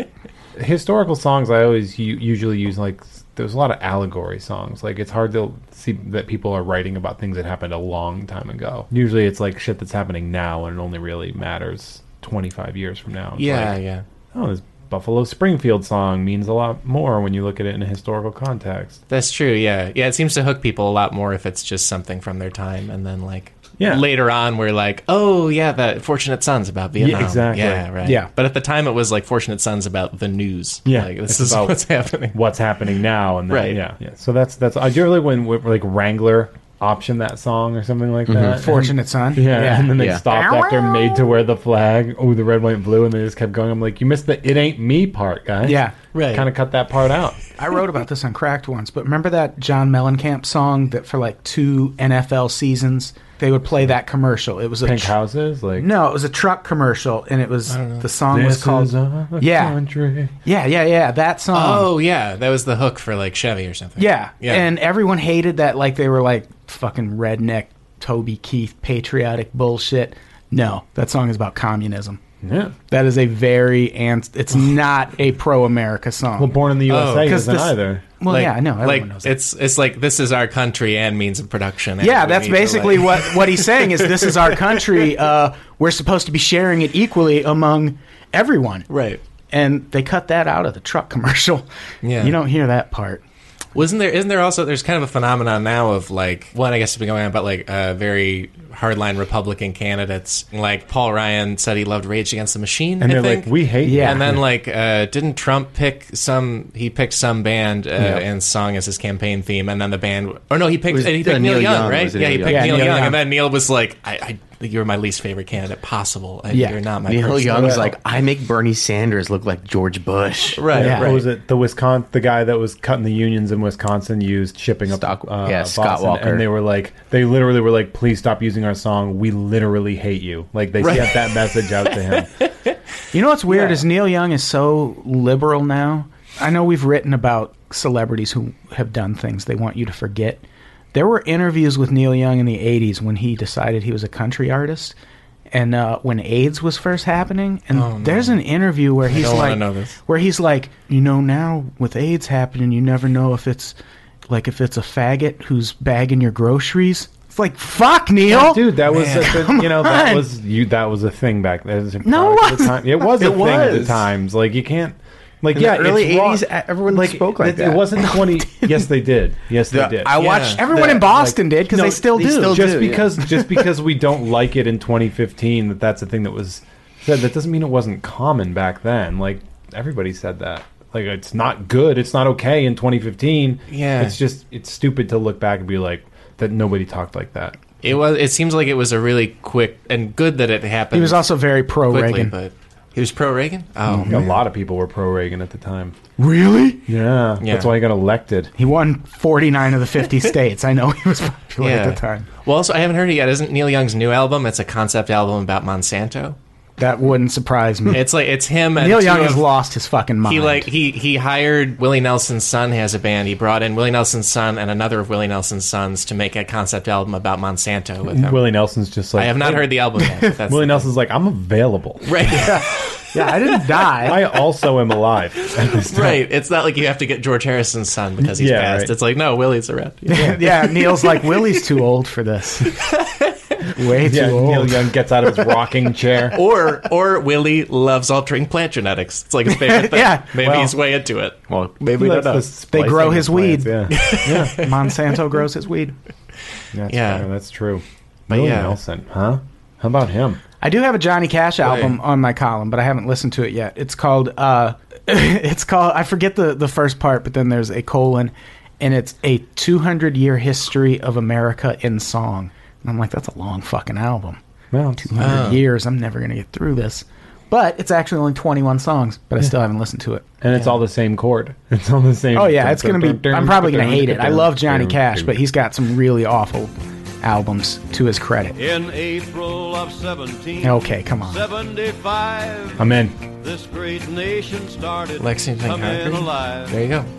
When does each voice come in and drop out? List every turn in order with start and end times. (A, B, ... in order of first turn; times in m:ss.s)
0:00.5-0:13.8 A
0:13.4-0:14.0 B
0:14.3-0:19.0 A
0:19.1-0:32.4 B
0:23.8-0:24.0 A
0:27.0-0:27.9 A
0:28.0-0:28.3 C
0:30.8-0:47.4 A
0:33.5-0:33.8 B
0:38.3-0:38.6 D
0:38.5-0:41.2 C
0:40.0-0:40.2 D
0:45.6-0:45.9 C
0:46.1-0:46.5 B
0:47.6-0:55.1 C
0:54.8-0:55.9 A
0:55.8-0:59.8 C
0:57.7-0:58.0 B
0:58.3-1:00.3 A
1:00.4-1:01.9 C
1:01.5-1:04.7 B
1:04.0-1:12.2 C
1:12.4-1:12.7 A
1:12.9-1:16.6 C
1:16.4-1:18.0 A
1:16.9-1:17.4 B
1:17.2-1:19.4 C
1:18.3-1:24.8 B
1:22.0-1:28.9 C
1:28.9-1:29.2 B
1:29.5-1:31.6 C
1:32.0-1:32.4 B
1:32.2-1:33.2 C
1:33.7-1:57.9 B
1:43.0-1:44.4 A
1:43.8-1:44.2 C
1:48.0-1:48.2 A
1:50.9-1:52.8 D
1:52.4-1:53.2 C
1:56.5-1:56.8 C
1:57.1-2:00.6 D
1:57.5-1:57.9 A
2:00.6-2:01.2 B
2:00.7-2:12.3 A
2:00.8-2:01.2 C
2:04.9-2:06.4 D
2:10.8-2:11.5 B
2:13.1-2:25.0 C
2:25.5-2:33.8 C
2:27.7-2:28.4 B
2:29.1-2:30.0 B
2:34.3-2:40.2 C
2:38.3-2:50.2 A
2:38.9-2:39.4 B
2:42.0-2:43.1 C
2:43.2-2:44.0 D
2:45.5-2:48.2 D
2:48.4-2:48.8 C
2:49.7-2:53.4 D
2:50.2-2:50.6 B
2:50.2-2:52.7 C
2:50.8-2:51.4 A
2:52.3-3:07.6 A
3:03.7-3:04.2 B
3:07.8-3:14.3 B
3:10.9-3:12.3 C
3:13.9-3:14.2 C
3:14.1-3:16.0 A
3:16.2-3:16.8 C
3:16.9-3:18.5 A
3:17.4-3:17.7 B
3:18.6-3:22.2 C
3:21.6-3:26.4 B
3:26.8-3:28.0 C
3:27.9-3:29.5 B
3:28.8-3:30.7 C
3:30.2-3:38.5 B
3:38.1-3:39.7 A
3:39.1-3:40.9 B
3:40.4-3:42.5 A
3:42.0-3:43.0 B
3:42.3-3:44.2 C
3:44.0-3:46.2 A
3:45.7-3:51.4 B
3:48.2-3:48.9 A
3:50.1-3:52.8 C
3:50.1-3:50.4 A
3:52.7-3:53.6 B
3:53.7-3:54.8 C
3:54.0-3:56.4 A
3:56.3-4:02.4 B
3:59.5-4:00.7 C
4:01.5-4:02.3 D
4:01.9-4:04.6 A
4:02.7-4:06.0 C
4:03.9-4:04.9 B
4:06.7-4:10.4 A
4:06.9-4:07.3 B
4:08.3-4:08.8 B
4:10.6-4:24.4 C
4:11.6-4:11.9 B
4:24.7-4:25.4 A
4:25.0-4:30.7 C
4:25.2-4:25.6 B
4:30.4-4:35.4 A
4:32.3-4:38.6 C
4:38.5-4:46.8 E
4:40.6-4:41.4 C
4:42.8-4:43.2 A
4:45.2-4:47.1 B